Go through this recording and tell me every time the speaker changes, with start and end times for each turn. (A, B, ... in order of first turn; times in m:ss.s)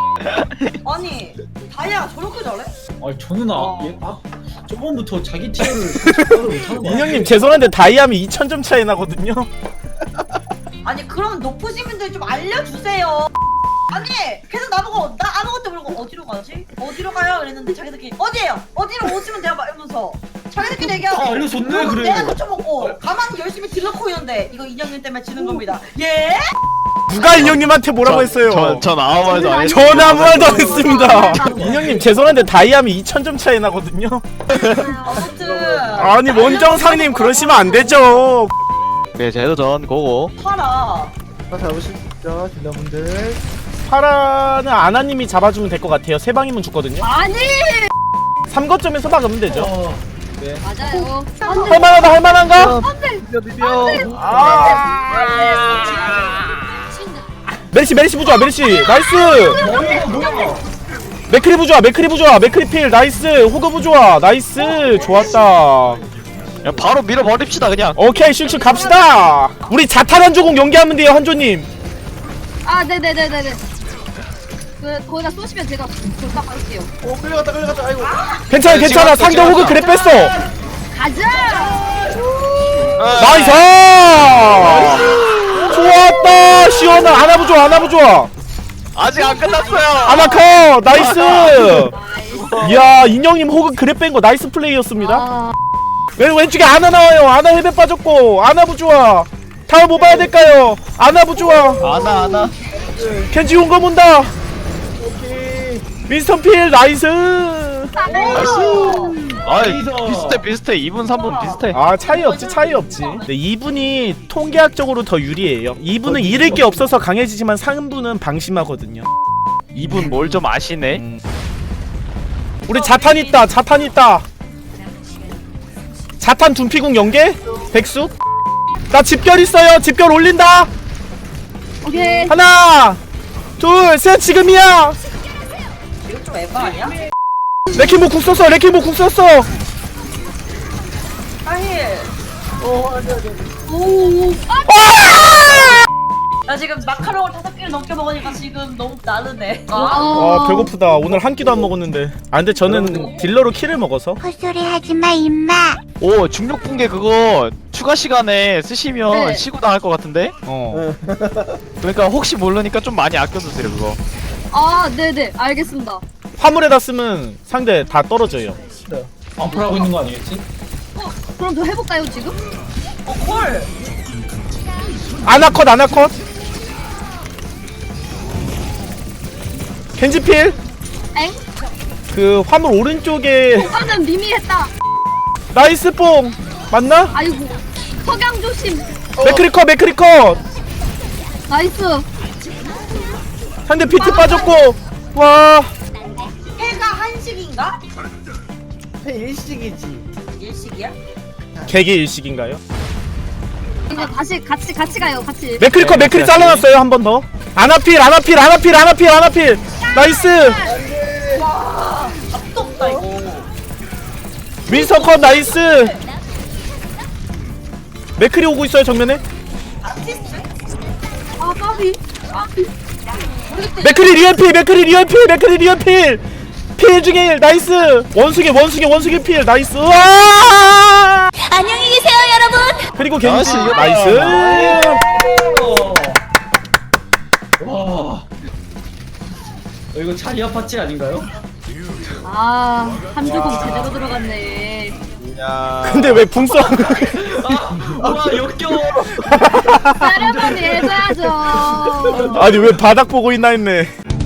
0:00.2-0:00.7 A
0:00.8-0:02.7 B
0:03.0-0:07.5 C
0:03.5-0:04.0 B
0:06.8-0:09.5 D
0:10.8-0:13.3 B
0:13.9-0:26.4 B
0:20.6-0:22.9 C
0:27.1-0:28.8 D
0:27.3-0:30.9 A
0:29.2-0:31.6 E
0:29.4-0:34.3 D
0:31.1-0:32.1 C
0:34.5-0:34.9 A
0:34.5-0:35.3 E
0:34.8-0:38.2 B
0:35.2-0:36.2 F
0:36.0-0:38.5 D
0:39.1-0:40.3 A
0:40.4-0:41.2 B
0:41.5-0:43.4 F
0:43.8-0:47.1 D
0:47.0-0:47.9 E
0:48.5-0:49.7 D
0:49.5-0:50.6 C
0:50.6-0:56.4 E
0:51.4-0:51.9 B
0:51.6-0:52.8 D
0:52.4-0:54.8 F
0:54.0-0:55.0 D
0:57.7-0:59.6 D
0:59.3-0:59.6 E
0:59.5-0:59.9 B
0:59.6-1:00.6 C
1:01.3-1:06.0 D
1:04.6-1:05.5 B
1:06.6-1:08.0 A
1:07.9-1:11.7 D
1:08.4-1:09.7 B
1:12.6-1:13.6 E
1:14.8-1:16.9 E
1:17.0-1:18.2 F
1:18.0-1:18.5 B
1:18.5-1:20.4 D
1:18.6-1:19.8 A
1:19.6-1:20.5 C
1:20.9-1:22.0 E
1:23.0-1:23.6 A
1:23.2-1:25.0 D
1:24.5-1:25.7 A
1:24.6-1:25.9 B
1:25.6-1:28.3 D
1:26.4-1:26.9 E
1:28.9-1:30.4 A
1:29.1-1:30.5 E
1:30.0-1:31.9 D
1:30.9-1:32.8 A
1:31.3-1:32.9 E
1:32.6-1:35.3 D
1:35.0-1:35.6 E
1:36.2-1:41.9 D
1:40.0-1:40.3 F
1:41.8-1:42.5 A
1:42.8-1:43.3 F
1:43.3-1:44.3 D
1:45.0-1:45.9 F
1:46.1-1:48.1 D
1:47.9-1:49.1 E
1:48.1-1:49.2 B
1:48.3-1:50.5 C
1:48.4-1:51.8 A
1:51.1-1:53.3 B
1:51.7-1:59.1 D
1:56.0-1:57.0 C
1:59.7-2:01.0 A
1:59.8-2:00.2 C
2:02.6-2:03.6 B
2:02.7-2:04.2 D
2:06.2-2:08.1 D
2:08.9-2:10.7 D
2:11.8-2:12.4 E
2:11.9-2:12.3 B
2:12.3-2:13.0 D
2:13.6-2:15.0 D
2:16.0-2:17.0 B
2:17.7-2:19.5 D
2:21.4-2:22.1 B
2:22.6-2:23.5 F
2:23.7-2:25.0 E
2:24.6-2:25.8 D
2:26.5-2:30.4 B
2:29.7-2:30.7 E
2:30.1-2:34.2 D
2:30.9-2:31.7 F
2:32.6-2:33.1 F
2:34.2-2:35.8 G
2:36.0-2:40.4 A
2:39.1-2:39.5 E
2:40.5-2:40.9 D
2:40.7-2:41.6 F
2:41.8-2:44.0 A
2:44.5-2:46.0 E
2:46.4-2:48.6 D
2:49.4-2:50.4 C
2:51.0-2:52.4 E
2:53.0-2:53.7 B
2:55.2-2:56.1 D
3:00.0-3:00.6 D
3:02.1-3:03.8 D
3:03.5-3:04.7 E
3:05.5-3:07.1 D
3:07.1-3:08.9 E
3:09.2-3:10.4 D
3:11.5-3:12.1 E
3:13.6-3:15.7 D
3:14.0-3:14.7 E
3:16.6-3:17.8 B
3:19.0-3:20.1 F
3:20.4-3:21.0 B
3:21.6-3:22.6 D
3:23.9-3:25.7 E
3:25.6-3:30.6 D
3:25.8-3:26.6 A
3:29.8-3:30.7 E
3:30.6-3:31.5 F
3:31.3-3:33.5 B
3:32.8-3:33.0 F
3:34.7-3:36.0 D
3:34.7-3:36.0 B
3:38.2-3:39.2 D
3:39.8-3:40.5 B
3:41.4-3:42.7 E
3:43.5-3:44.2 B
3:43.8-3:46.2 D
3:46.8-3:51.3 D
3:51.4-3:52.8 G
3:53.0-3:55.0 D
3:53.2-3:54.2 A
3:53.8-3:56.2 C
3:57.6-3:58.3 C
3:59.9-4:01.3 C
4:02.2-4:05.0 E
4:03.6-4:04.0 C
4:05.3-4:05.9 F
4:05.8-4:07.2 D
4:06.5-4:12.8 C
4:09.2-4:10.2 D
4:10.0-4:12.3 E
4:12.2-4:13.9 D